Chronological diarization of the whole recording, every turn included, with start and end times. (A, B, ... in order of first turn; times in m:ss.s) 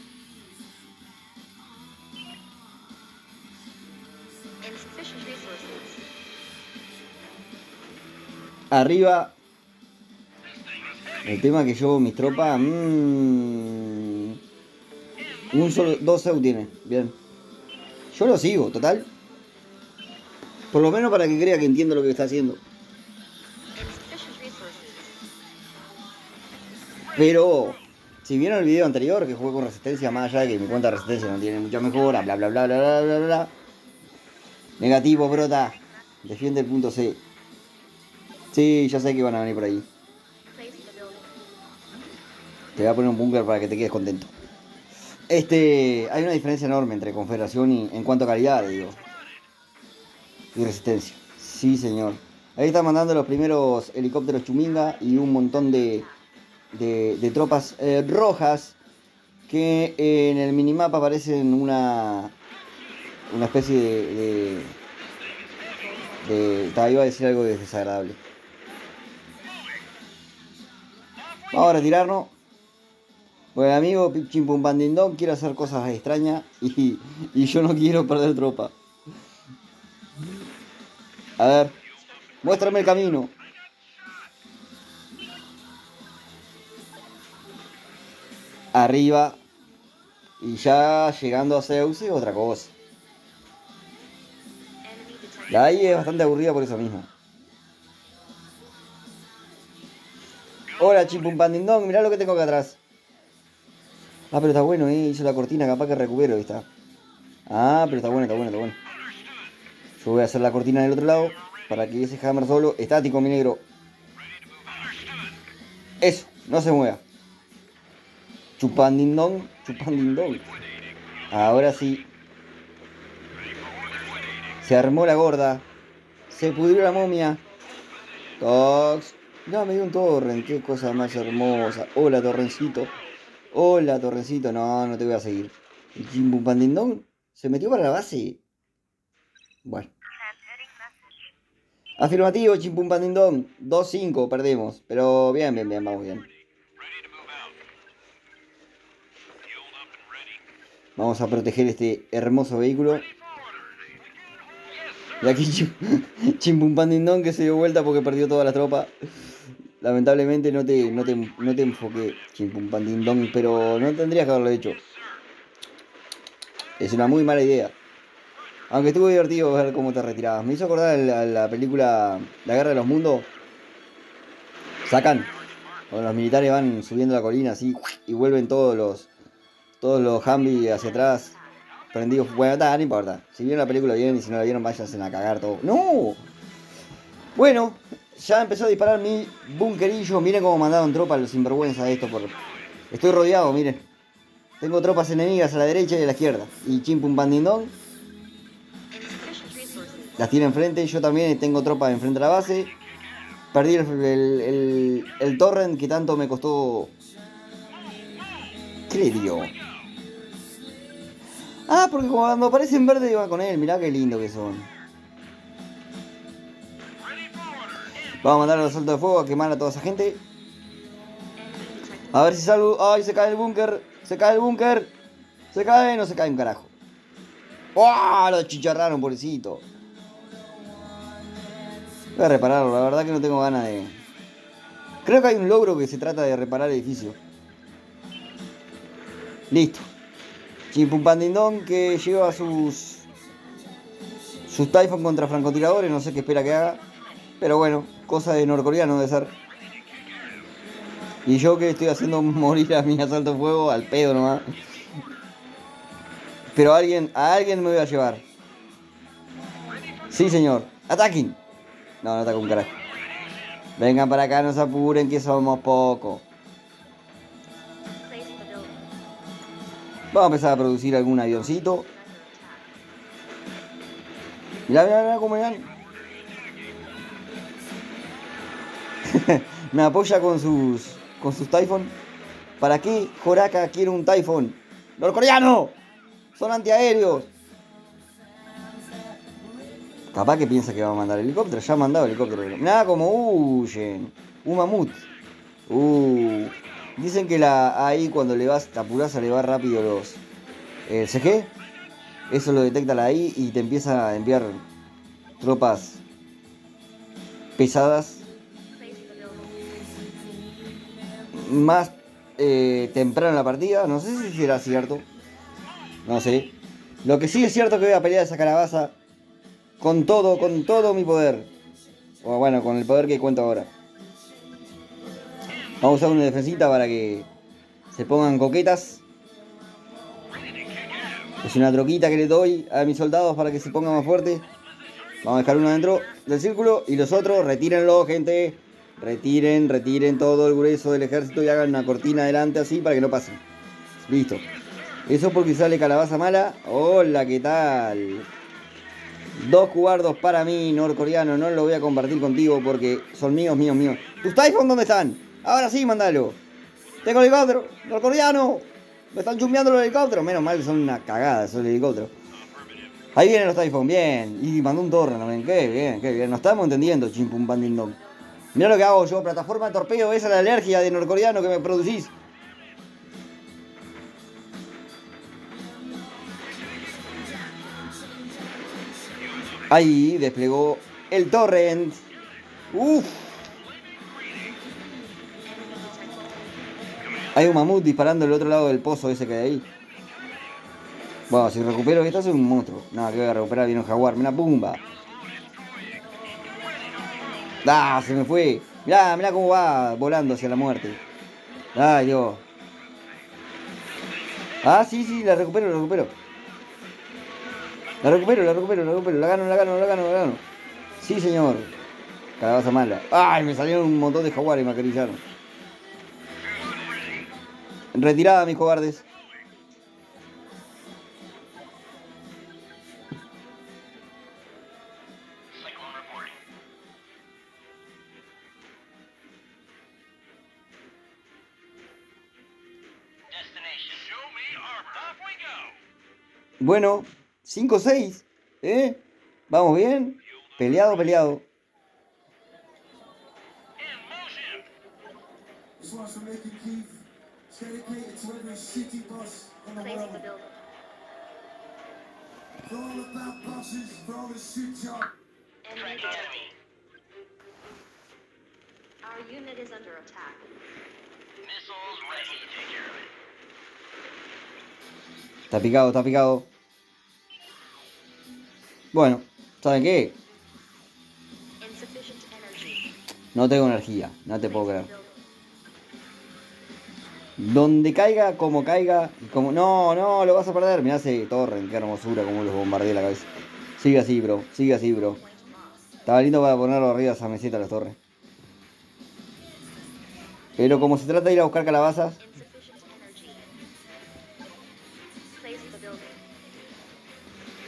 0:04.6-0:06.0 A
0:08.7-0:09.3 B
0:10.5-0:11.2 C
0:11.2-0:14.4 B
0:15.5-0:17.2 B
0:18.1-0:19.1 B
0:20.7-0:22.6 B
0:23.7-0:25.2 A
0:27.1-0:33.5 B
0:34.8-0:37.2 B
0:38.5-0:39.9 B
0:40.5-0:41.3 A
0:42.8-0:44.3 B
0:45.3-0:49.0 B
0:50.5-0:56.0 B
0:54.7-0:56.2 A
0:56.7-0:58.8 B
0:59.5-1:02.3 B
1:03.3-1:04.7 B
1:05.8-1:06.6 A
1:06.2-1:08.2 B
1:11.5-1:12.3 B
1:13.5-1:18.7 B
1:21.4-1:21.7 B
1:22.0-1:22.6 A
1:22.4-1:23.3 B
1:28.7-1:29.4 B
1:30.4-1:32.7 B
1:34.8-1:36.3 A
1:35.5-1:37.1 B
1:40.8-1:42.8 B
1:44.3-1:46.7 B
1:47.5-1:48.8 B
1:50.0-1:53.6 B
1:54.4-1:55.3 C
1:56.0-1:57.0 B
1:58.6-2:00.4 B
2:01.3-2:02.1 B
2:03.6-2:04.5 C
2:04.6-2:05.6 B
2:06.3-2:07.4 B
2:08.4-2:12.9 B
2:12.9-2:13.5 A
2:13.5-2:18.4 B
2:19.6-2:19.9 B
2:22.0-2:26.2 B
2:26.8-2:27.5 C
2:29.6-2:30.4 C
2:31.0-2:33.0 B
2:35.2-2:38.9 B
2:39.8-2:44.8 B
2:46.8-2:47.7 B
2:48.7-2:53.3 B
2:54.8-2:55.3 B
2:55.9-2:59.1 B
2:59.8-3:01.3 B
3:00.6-3:01.6 A
3:01.9-3:06.2 B
3:07.3-3:12.3 B
3:12.9-3:13.8 B
3:14.6-3:17.7 B
3:18.9-3:20.6 A
3:20.2-3:22.7 B
3:23.5-3:26.9 B
3:28.9-3:29.5 B
3:31.7-3:34.7 B
3:38.2-3:40.2 B
3:41.4-3:42.4 A
3:42.1-3:44.9 B
3:45.5-3:46.7 B
3:47.7-3:49.6 B
3:52.1-3:54.0 B
3:55.0-3:57.2 B
3:59.5-3:59.9 B
4:00.7-4:03.0 B
4:04.5-4:06.8 B
4:07.4-4:09.3 B
4:11.2-4:14.5 B
4:16.5-4:18.2 B
4:20.1-4:21.4 B
4:22.0-4:22.8 B
4:23.8-4:26.2 B
4:28.0-4:28.8 A
4:30.1-4:31.8 B
4:31.3-4:32.7 A
4:34.7-4:35.7 B
4:36.0-4:36.6 C
4:39.0-4:41.9 B
4:42.4-4:42.7 A
4:42.6-4:45.8 B
4:46.4-4:47.3 B
4:50.1-4:55.0 B
4:55.7-5:00.2 B
5:00.9-5:01.5 B
5:02.3-5:04.6 B
5:05.4-5:06.0 B
5:07.6-5:08.2 B
5:08.7-5:09.8 A
5:11.3-5:15.1 B
5:16.0-5:16.5 B
5:17.0-5:18.9 B
5:19.8-5:21.5 B
5:22.2-5:23.7 B
5:25.8-5:27.3 B
5:27.9-5:29.0 B
5:30.5-5:31.2 C
5:31.4-5:34.4 B
5:35.2-5:43.4 B
5:44.0-5:44.4 B
5:45.0-5:48.3 B
5:49.4-5:56.4 B
5:57.0-6:02.1 B
6:03.1-6:08.0 B
6:08.5-6:12.1 B
6:19.7-6:22.0 B
6:22.7-6:23.4 B
6:23.9-6:24.4 C
6:25.5-6:26.6 A
6:27.3-6:29.6 B
6:31.3-6:34.8 B
6:34.9-6:35.9 C
6:36.5-6:37.3 C
6:37.6-6:41.0 B
6:41.7-6:42.4 B
6:44.6-6:46.1 B
6:48.0-6:50.4 B
6:51.0-6:51.7 B
6:52.4-6:55.2 B
6:56.6-6:57.0 C
6:57.9-6:59.0 B
7:05.5-7:06.4 C
7:13.3-7:15.8 C
7:16.6-7:21.4 B
7:23.8-7:24.6 C
7:26.0-7:26.8 B
7:27.6-7:29.4 B
7:29.6-7:30.6 A
7:35.6-7:36.5 A
7:35.9-7:36.5 C
7:39.0-7:40.5 A
7:41.4-7:43.1 C
7:45.5-7:46.5 B
7:48.9-7:50.2 B
7:51.6-7:52.9 A
7:53.3-7:54.9 B
7:54.4-7:55.3 A
7:57.4-8:05.2 B
8:05.0-8:05.9 A
8:06.0-8:08.0 B
8:10.6-8:12.2 B
8:12.2-8:13.5 A
8:15.3-8:16.2 A